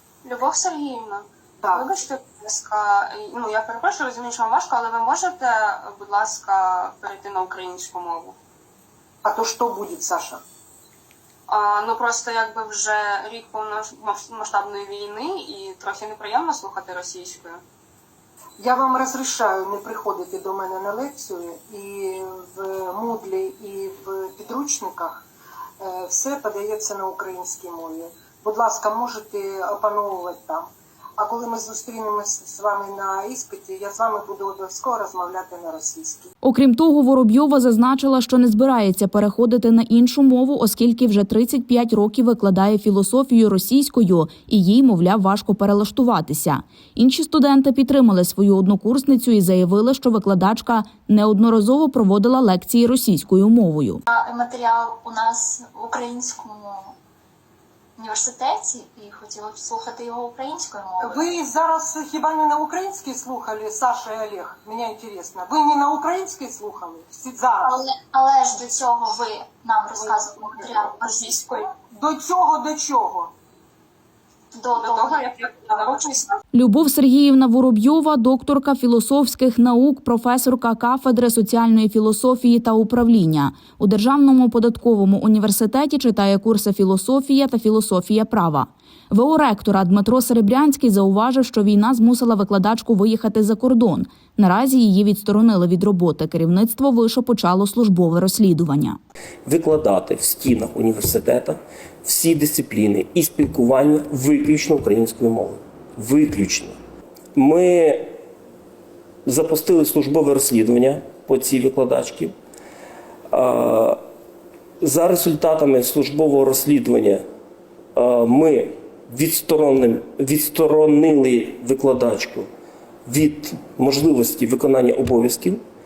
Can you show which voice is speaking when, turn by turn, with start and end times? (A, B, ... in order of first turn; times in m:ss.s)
0:00.2-0:08.4 A
0:01.6-0:01.9 B
0:09.2-0:10.4 B
0:11.5-0:17.6 A
0:18.6-0:25.2 B
0:25.8-0:36.3 B
0:36.4-0:54.0 C
0:54.1-0:56.9 D
0:58.0-1:01.3 D
1:01.0-1:07.7 B
1:07.6-1:11.4 D
1:11.2-1:11.6 A
1:11.9-1:13.3 B
1:14.5-1:15.3 D
1:14.7-1:16.4 A
1:16.5-1:39.0 C
1:39.4-1:46.8 E
1:47.3-1:48.1 E
1:49.2-1:52.3 E
1:53.3-1:54.0 E
1:54.8-1:57.2 E
1:57.9-2:02.5 E
2:03.0-2:05.6 E